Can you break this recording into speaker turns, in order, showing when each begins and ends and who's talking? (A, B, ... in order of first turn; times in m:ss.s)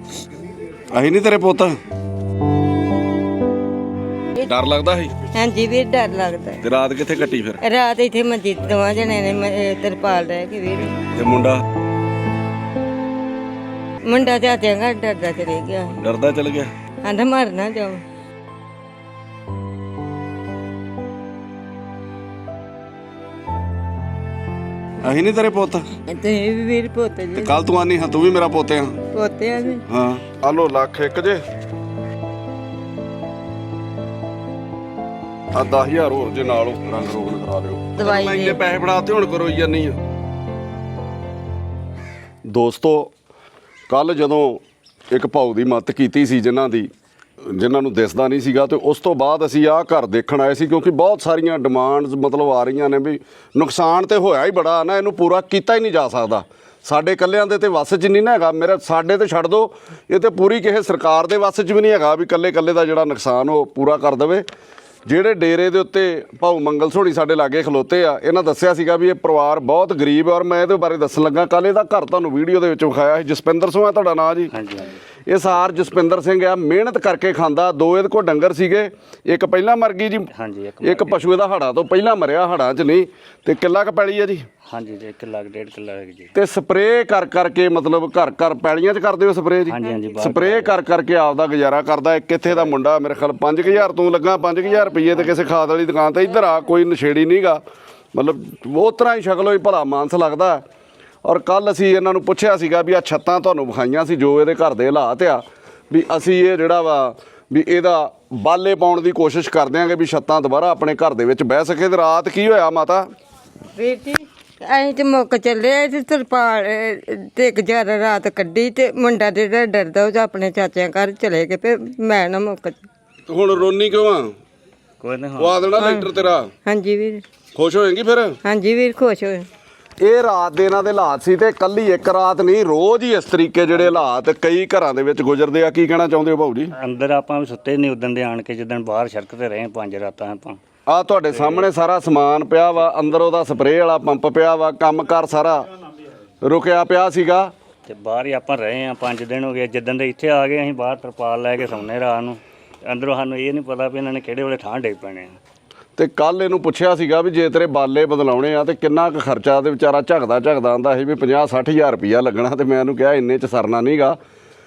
0:00.9-0:01.7 A
0:04.4-0:05.1 A
0:05.3-0:06.6 B
0:06.6-0:07.6 A
0:07.6-0:11.1 B
0:11.1-0:11.6 A
0:14.1-0:15.9 B
0:16.0-0:16.7 A
0:17.0-0:18.0 B
0:25.0-0:25.8 A
0:26.1-0:27.6 B
0:27.4-0:29.0 A
0:29.1-0:29.8 B
0:29.9-0:31.4 A
0:35.5-0:40.0 A
0:38.0-0:38.6 B
0:42.5-0:43.1 A
0:43.9-0:46.9 A
0:47.4-1:04.4 A
1:05.1-1:14.5 A
1:14.5-1:15.0 C
1:15.3-1:20.3 A
1:20.3-1:21.2 C
1:20.8-1:24.4 A
1:24.6-1:26.3 C
1:26.3-1:37.6 A
1:29.7-1:30.8 C
1:38.1-1:40.6 A
1:41.2-1:53.0 A
1:53.8-2:02.8 B
2:03.3-2:04.3 A
2:03.6-2:04.0 C
2:05.0-2:06.4 C
2:05.4-2:06.5 A
2:05.8-2:06.0 B
2:06.6-2:07.2 B
2:07.6-2:08.4 A
2:08.4-2:09.4 B
2:10.0-2:16.7 A
2:16.7-2:20.6 C
2:20.9-2:25.7 A
2:21.3-2:21.7 C
2:26.4-2:27.5 A
2:27.9-2:35.4 C
2:36.0-2:44.2 A